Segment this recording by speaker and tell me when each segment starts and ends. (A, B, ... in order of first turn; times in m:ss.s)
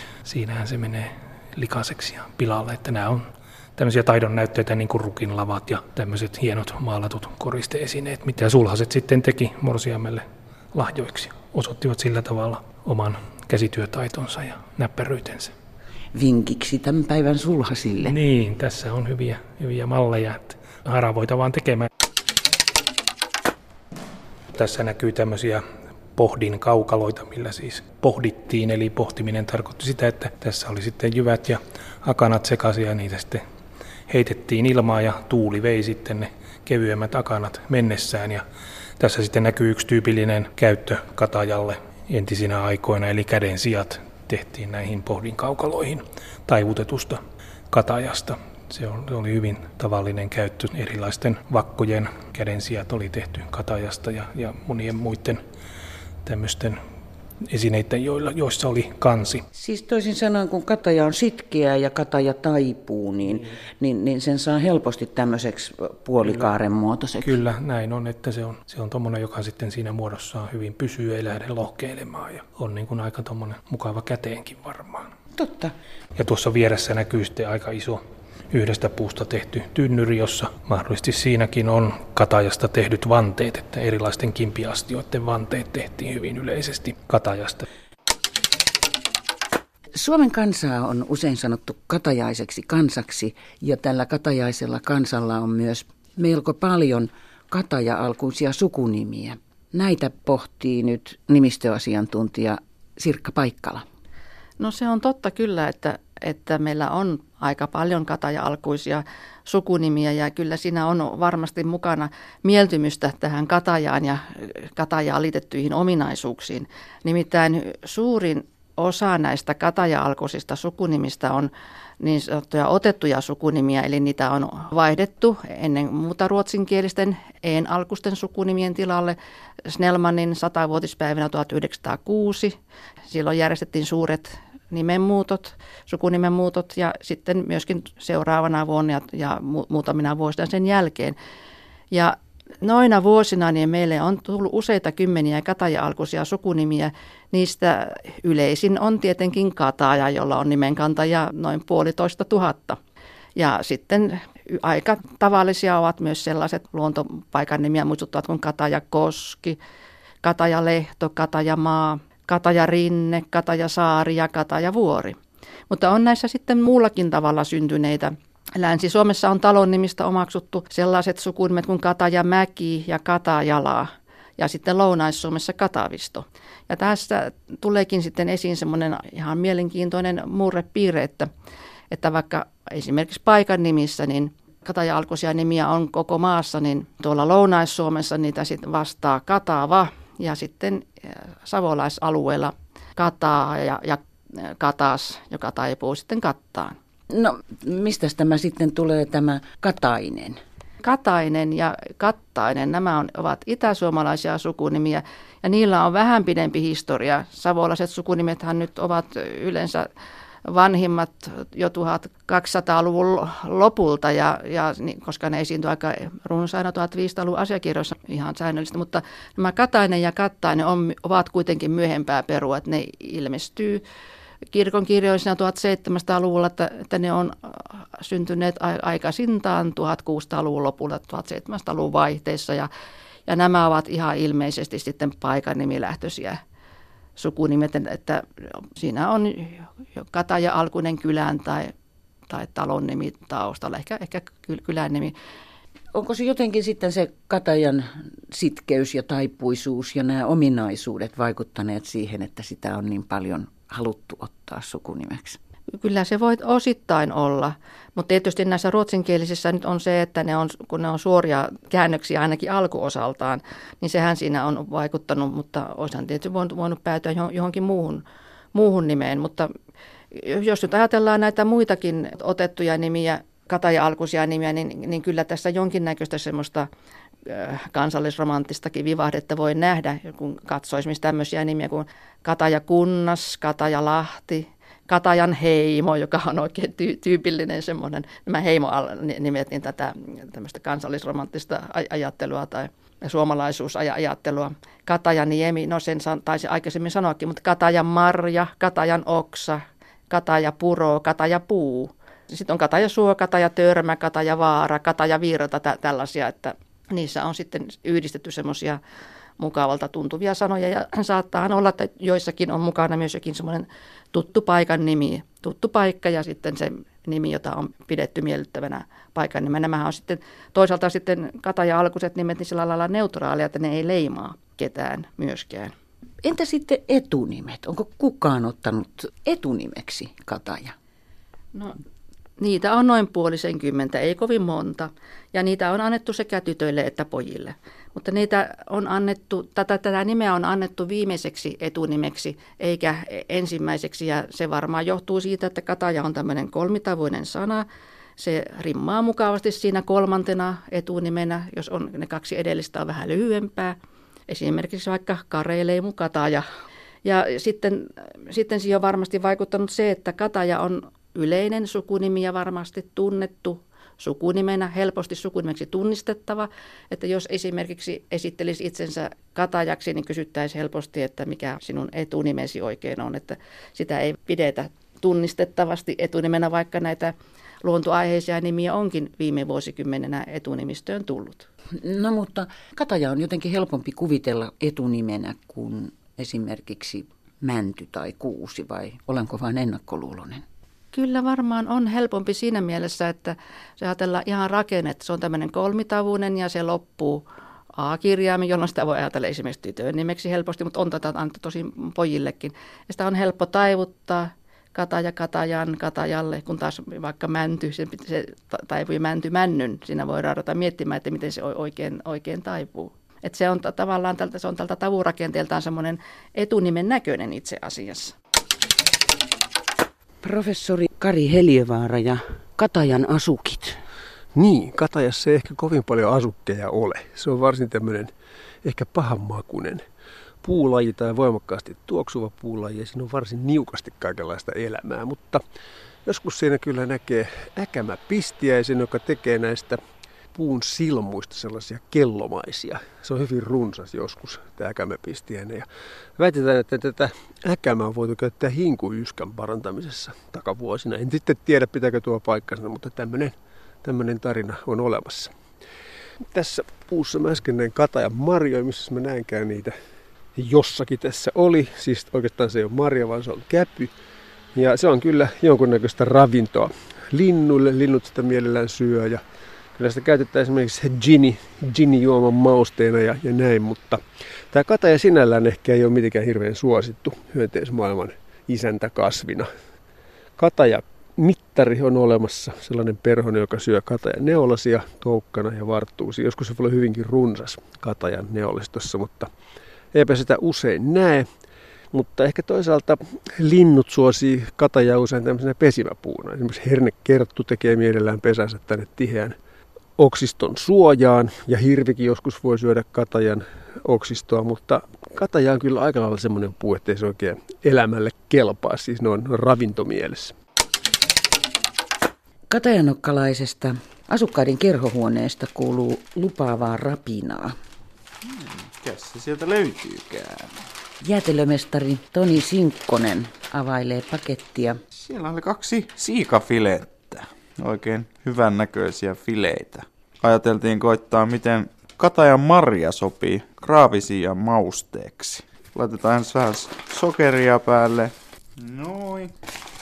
0:00.2-0:15.5 A
0:16.1-0:18.2 B
0:18.0-0:21.9 A
0:24.5-0:25.6 A
0:26.1-0:33.4 A
0:34.1-0:38.4 A
0:39.0-0:47.2 A
0:47.7-0:55.4 A
0:56.2-0:56.8 A
0:57.5-0:59.4 A
0:59.5-1:07.3 B
1:07.2-1:15.1 A
1:15.4-1:15.7 B
1:16.2-1:27.6 A
1:30.0-1:43.8 B
1:44.6-2:09.2 C
2:09.7-2:12.5 C
2:13.1-2:21.2 C
2:21.9-2:32.8 C
2:33.4-2:39.6 C
2:40.2-2:45.2 C
2:45.7-2:53.9 C
2:54.4-3:01.3 C
3:01.9-3:14.0 C
3:14.6-3:16.7 C
3:17.1-3:20.4 B
3:20.8-3:29.9 C
3:30.5-3:43.8 C
3:44.5-3:52.7 C
3:53.3-3:56.4 C
3:57.2-3:58.2 C
3:58.8-4:01.7 C
4:02.3-4:05.1 C
4:05.9-4:15.4 B
4:15.8-4:29.5 C
4:30.1-4:36.7 C
4:37.3-4:59.6 C
5:00.1-5:08.8 C
5:09.4-5:25.7 C
5:26.2-5:30.7 B
5:32.4-5:47.6 C
5:48.2-5:53.7 C
5:54.3-5:56.4 C
5:57.0-6:17.1 C
6:17.6-6:21.5 C
6:21.8-6:30.4 B
6:30.9-6:37.2 C
6:37.8-6:58.1 C
7:00.2-7:03.8 B
7:04.3-7:08.1 D
7:08.6-7:09.8 D
7:10.4-7:15.4 D
7:16.0-7:19.8 D
7:20.3-7:35.3 D
7:36.3-7:39.8 D
7:40.4-7:43.9 D
7:44.5-7:49.2 D
7:49.8-7:59.5 D
8:00.4-8:09.3 D
8:09.9-8:11.3 D
8:11.9-8:19.4 D
8:20.0-8:30.3 D
8:32.5-8:37.5 B
8:38.2-8:40.5 E
8:41.0-8:44.8 B
8:45.0-8:59.3 E